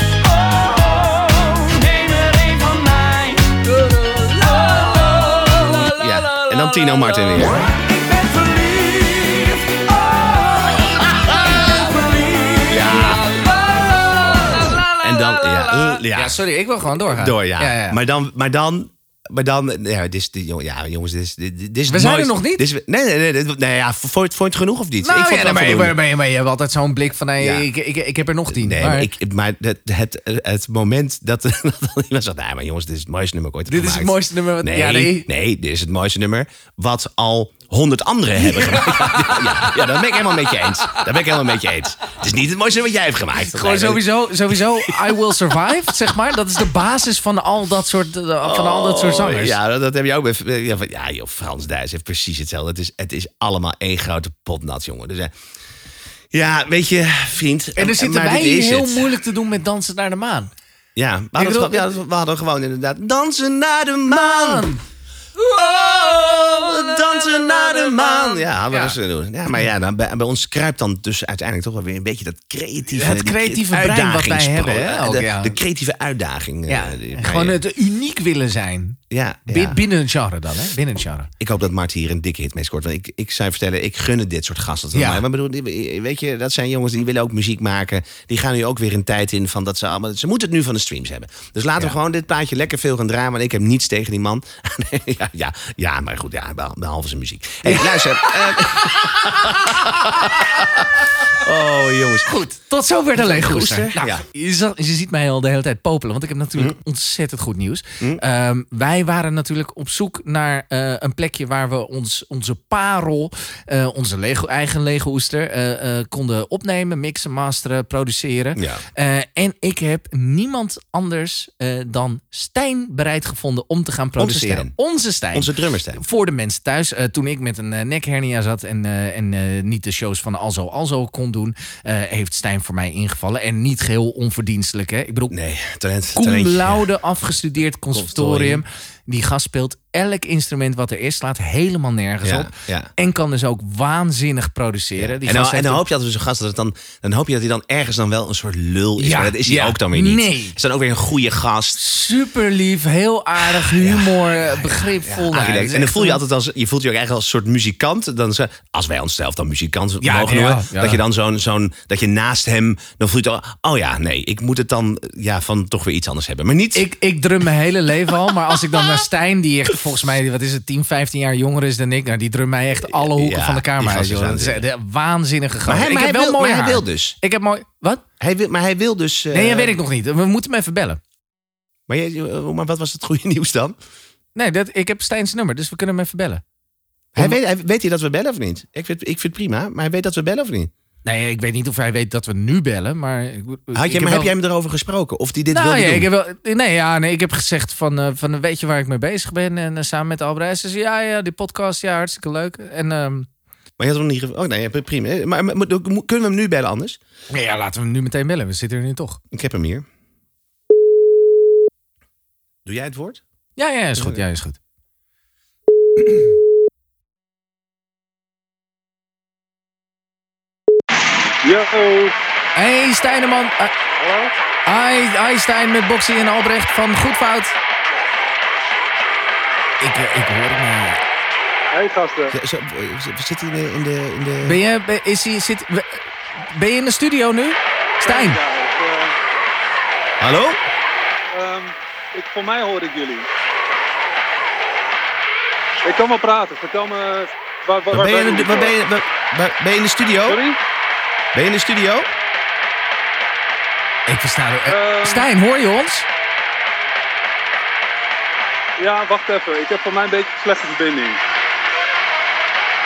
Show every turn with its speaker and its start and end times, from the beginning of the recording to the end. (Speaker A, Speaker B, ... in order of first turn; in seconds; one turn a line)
Speaker A: 0.2-14.9
Speaker B: 5.8-7.7
Speaker B: 12.6-13.3
Speaker B: 15.0-16.4
Speaker C: 15.3-18.0
Speaker B: 17.0-26.0
Speaker C: 21.9-22.6
Speaker C: 25.0-29.1
Speaker B: 27.4-27.7
Speaker B: 28.5-45.2
Speaker C: 33.7-35.3
Speaker C: 38.4-41.0
Speaker C: 43.3-49.6
Speaker B: 48.4-55.3
Speaker B: 56.3-59.1
Speaker C: 57.8-60.5
Speaker B: 61.0-64.7
Speaker C: 61.4-61.9
Speaker C: 64.1-64.8
Speaker B: 65.4-77.6
Speaker C: 68.7-69.0
Speaker C: 72.9-75.6
Speaker C: 76.7-81.3
Speaker B: 79.1-79.8
Speaker B: 81.4-102.3
Speaker C: 84.9-85.2
Speaker C: 97.6-100.6
Speaker C: 102.2-135.3
Speaker B: 103.1-104.2
Speaker B: 118.5-118.8
Speaker B: 124.2-124.8
Speaker B: 125.3-126.0
Speaker B: 135.3-136.9
Speaker C: 136.1-145.8
Speaker B: 137.9-138.6
Speaker B: 142.2-142.9
Speaker B: 145.0-151.8
Speaker C: 149.0-150.6
Speaker C: 151.8-156.2
Speaker B: 153.4-166.9
Speaker C: 160.0-161.0
Speaker C: 166.7-178.0
Speaker B: 172.8-174.7
Speaker B: 175.7-177.2
Speaker B: 178.2-179.8
Speaker C: 179.3-181.0
Speaker B: 181.9-183.8
Speaker C: 184.3-186.4
Speaker B: 187.1-190.7
Speaker C: 191.0-194.3
Speaker B: 193.7-196.1
Speaker C: 195.5-203.3
Speaker B: 203.8-207.0
Speaker C: 207.3-209.2
Speaker B: 209.3-209.9
Speaker B: 212.6-213.2
Speaker C: 213.6-214.6
Speaker B: 213.9-214.2
Speaker D: 221.4-222.2
Speaker C: 222.6-223.7
Speaker D: 224.0-224.3
Speaker C: 224.7-227.5
Speaker C: 229.8-231.0
Speaker D: 231.7-232.3
Speaker B: 232.3-234.6
Speaker C: 234.4-238.4
Speaker D: 238.0-239.1
Speaker B: 240.2-240.6
Speaker D: 241.3-243.3
Speaker D: 245.8-248.8
Speaker B: 247.9-250.4
Speaker D: 250.3-250.6
Speaker B: 251.3-252.1
Speaker C: 254.1-256.1
Speaker D: 254.7-255.3
Speaker D: 258.8-261.2